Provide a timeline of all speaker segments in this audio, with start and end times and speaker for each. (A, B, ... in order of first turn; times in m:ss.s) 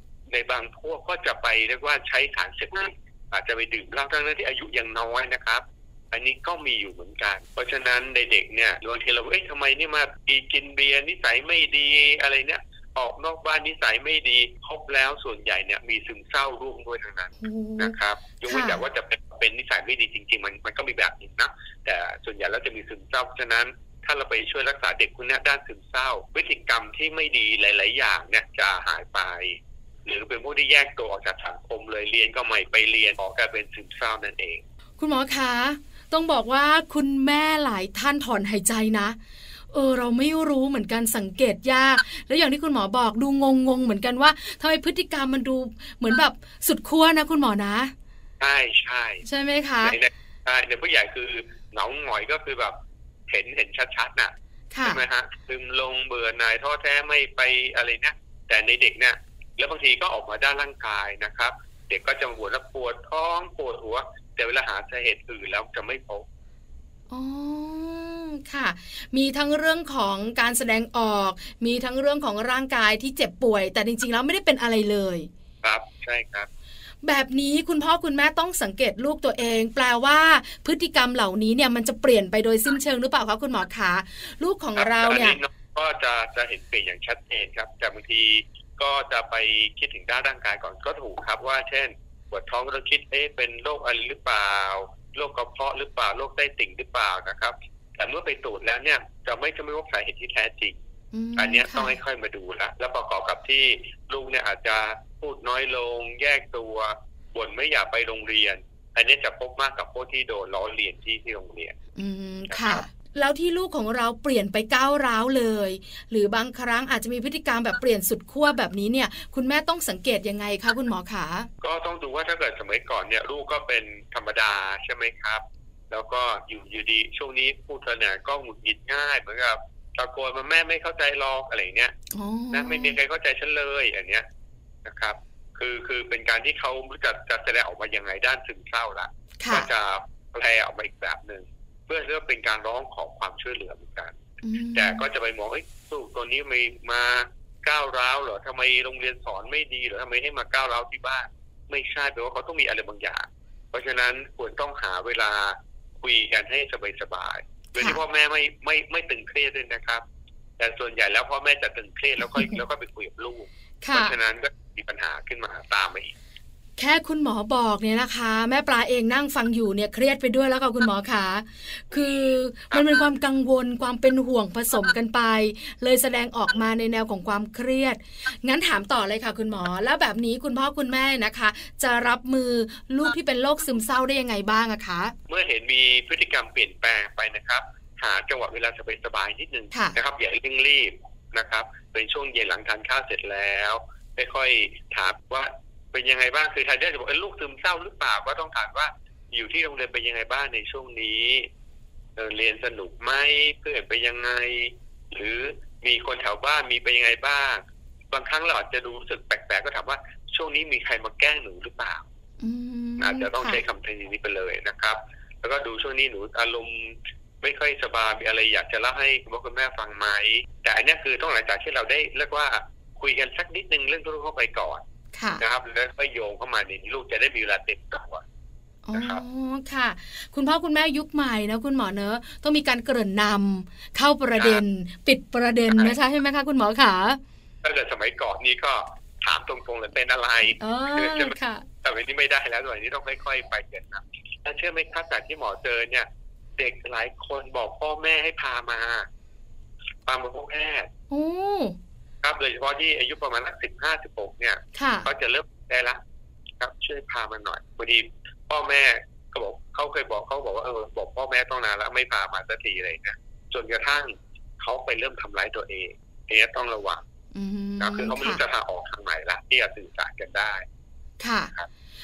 0:00.3-0:34.6 A
0:17.4-0:17.9 B
0:18.5-0:18.8 B
0:35.0-0:39.2 B
0:39.7-0:47.9 B
0:48.4-0:49.2 A
0:49.2-0:50.0 B
0:49.8-0:52.8 A
0:53.3-0:54.3 A
0:54.7-0:55.0 B
0:54.8-1:06.2 A
1:07.1-1:15.3 B
1:15.6-1:16.5 A
1:17.0-1:25.4 B
1:24.8-1:40.8 A
1:41.1-1:42.0 B
1:41.4-1:51.8 A
1:52.0-2:01.5 B
1:52.5-1:52.8 A
2:01.6-2:11.9 A
2:12.1-2:13.0 B
2:12.5-2:14.2 A
2:14.8-2:24.2 A
2:19.4-2:19.7 B
2:24.4-2:25.1 B
2:24.7-2:40.0 A
2:40.6-2:46.1 A
2:43.8-2:44.1 B
2:46.8-3:05.2 B
3:05.3-3:21.5 A
3:22.2-3:32.0 A
3:32.4-3:33.6 B
3:33.0-3:44.8 A
3:45.2-3:45.4 B
3:45.4-3:48.2 A
3:48.9-3:57.2 B
3:48.9-3:49.2 A
3:55.7-3:56.0 A
3:57.6-4:09.1 A
4:00.6-4:01.7 B
4:10.1-4:10.9 A
4:11.1-4:11.8 B
4:12.2-4:16.0 A
4:14.8-4:15.1 B
4:16.6-4:27.0 A
4:27.3-4:28.4 B
4:27.8-4:30.6 A
4:31.2-4:31.5 B